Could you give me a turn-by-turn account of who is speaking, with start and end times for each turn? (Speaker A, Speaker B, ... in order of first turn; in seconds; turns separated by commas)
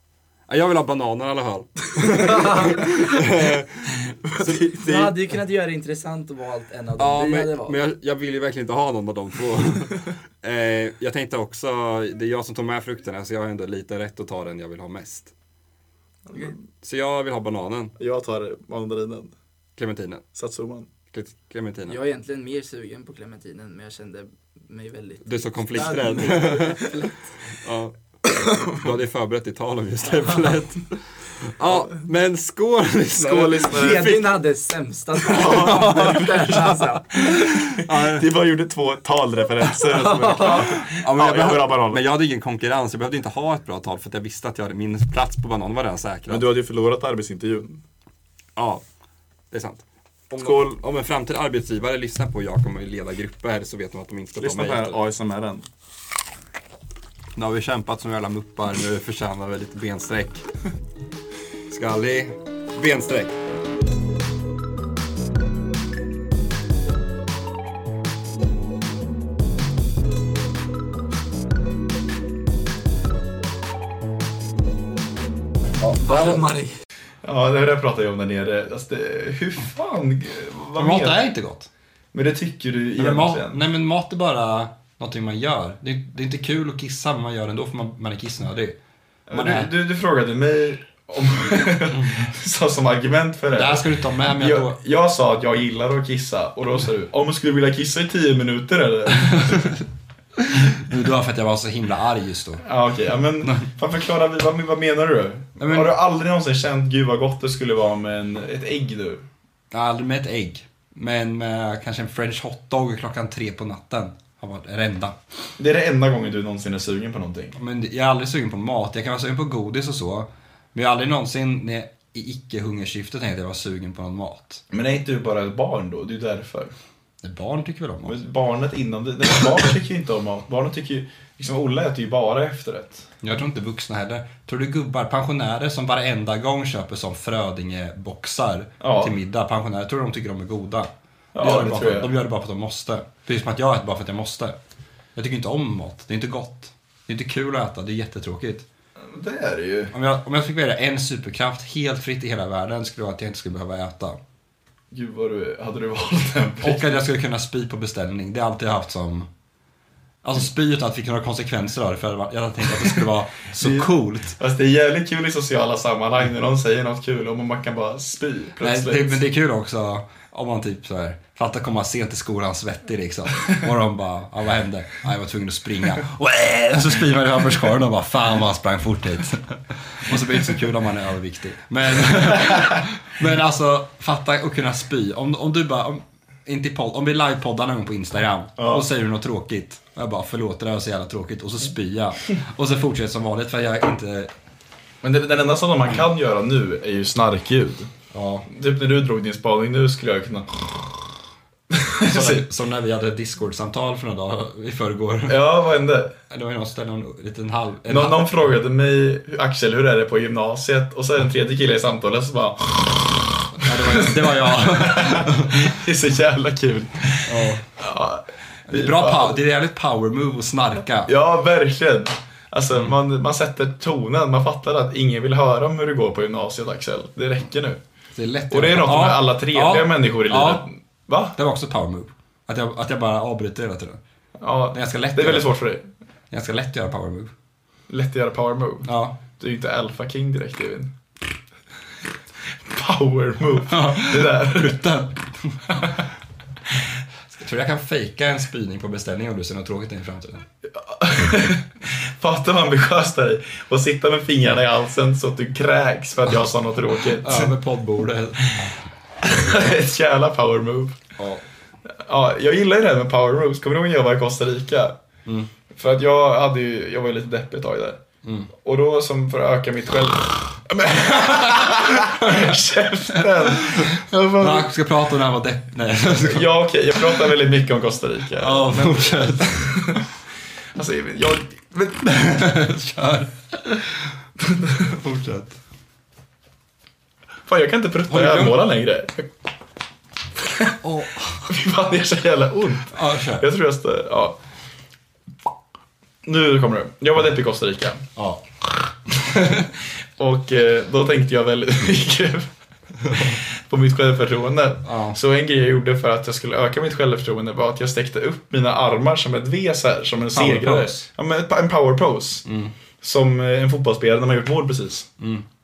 Speaker A: 0.5-5.2, Speaker B: 4.3-4.9, Speaker C: 4.7-7.8, Speaker A: 7.0-15.3, Speaker A: 16.8-18.0, Speaker B: 18.0-19.3, Speaker A: 19.8-20.2, Speaker B: 20.4-20.9, Speaker A: 21.1-22.0, Speaker C: 21.9-27.1, Speaker A: 25.2-26.9, Speaker B: 25.8-26.3, Speaker A: 27.6-28.0, Speaker A: 28.7-34.4, Speaker B: 33.2-34.2, Speaker C: 33.6-37.1, Speaker A: 35.3-36.5, Speaker B: 35.3-36.7, Speaker A: 37.4-38.3, Speaker B: 38.0-42.0, Speaker C: 39.9-40.7, Speaker A: 40.4-46.5, Speaker B: 46.3-47.8, Speaker A: 48.6-48.8, Speaker A: 49.5-55.0, Speaker B: 50.4-50.8, Speaker B: 54.4-55.7, Speaker A: 57.4-60.5, Speaker A: 61.7-63.4, Speaker A: 76.1-76.4, Speaker C: 76.1-76.7, Speaker B: 76.1-76.4, Speaker B: 77.2-81.3, Speaker A: 80.8-81.7, Speaker B: 82.1-83.6, Speaker A: 83.0-88.8, Speaker B: 89.3-99.7, Speaker A: 89.3-89.7, Speaker A: 91.9-92.3, Speaker A: 93.5-94.8, Speaker A: 99.3-99.8, Speaker A: 100.7-102.6, Speaker B: 102.6-109.2, Speaker A: 103.4-103.7, Speaker A: 105.6-105.9, Speaker A: 109.7-115.2, Speaker B: 115.6-117.5, Speaker A: 117.6-124.6, Speaker B: 124.7-126.7, Speaker A: 127.2-128.2, Speaker B: 128.1-133.1, Speaker A: 133.2-144.6, Speaker B: 138.8-139.2, Speaker B: 141.3-142.1, Speaker A: 145.2-148.7, Speaker B: 149.0-149.9, Speaker A: 149.9-154.2, Speaker B: 154.9-156.9, Speaker A: 156.6-159.3, Speaker A: 160.2-164.4, Speaker B: 163.6-169.2, Speaker A: 168.6-194.3, Speaker B: 188.6-188.8, Speaker B: 195.0-197.9, Speaker A: 198.1-198.5, Speaker B: 198.5-200.5, Speaker B: 201.9-202.5, Speaker A: 202.1-205.4, Speaker B: 205.3-206.2, Speaker A: 206.3-208.3, Speaker B: 207.9-213.1, Speaker A: 213.6-215.6, Speaker B: 213.7-219.4, Speaker A: 217.3-217.7, Speaker A: 218.7-221.1, Speaker B: 221.1-227.8, Speaker A: 228.2-230.7, Speaker B: 228.5-231.3, Speaker A: 231.3-234.0, Speaker B: 234.4-235.9, Speaker A: 234.7-235.5, Speaker A: 236.3-237.3, Speaker B: 237.9-240.9, Speaker A: 238.8-239.2, Speaker B: 242.7-244.8, Speaker A: 243.7-245.5, Speaker A: 247.3-250.4, Speaker B: 250.8-257.5, Speaker A: 257.1-258.5, Speaker B: 259.2-261.0, Speaker A: 261.2-261.4, Speaker B: 262.1-265.0, Speaker B: 265.7-268.0, Speaker A: 268.2-268.5, Speaker B: 268.6-274.7, Speaker A: 271.2-272.6, Speaker A: 273.4-277.3, Speaker B: 276.2-280.0, Speaker A: 278.4-279.6, Speaker B: 280.8-282.0, Speaker A: 282.0-283.8, Speaker A: 284.8-285.6, Speaker B: 287.5-289.3, Speaker A: 288.1-288.6, Speaker A: 290.8-291.5, Speaker B: 291.5-294.4, Speaker A: 292.9-293.5, Speaker B: 296.3-298.1, Speaker A: 298.2-298.4, Speaker B: 299.4-299.7, Speaker B: 300.2-302.5, Speaker A: 303.0-303.4, Speaker B: 303.6-312.5, Speaker A: 304.9-305.2, Speaker A: 310.3-311.1, Speaker A: 312.5-312.7, Speaker B: 313.0-315.1, Speaker A: 315.2-315.4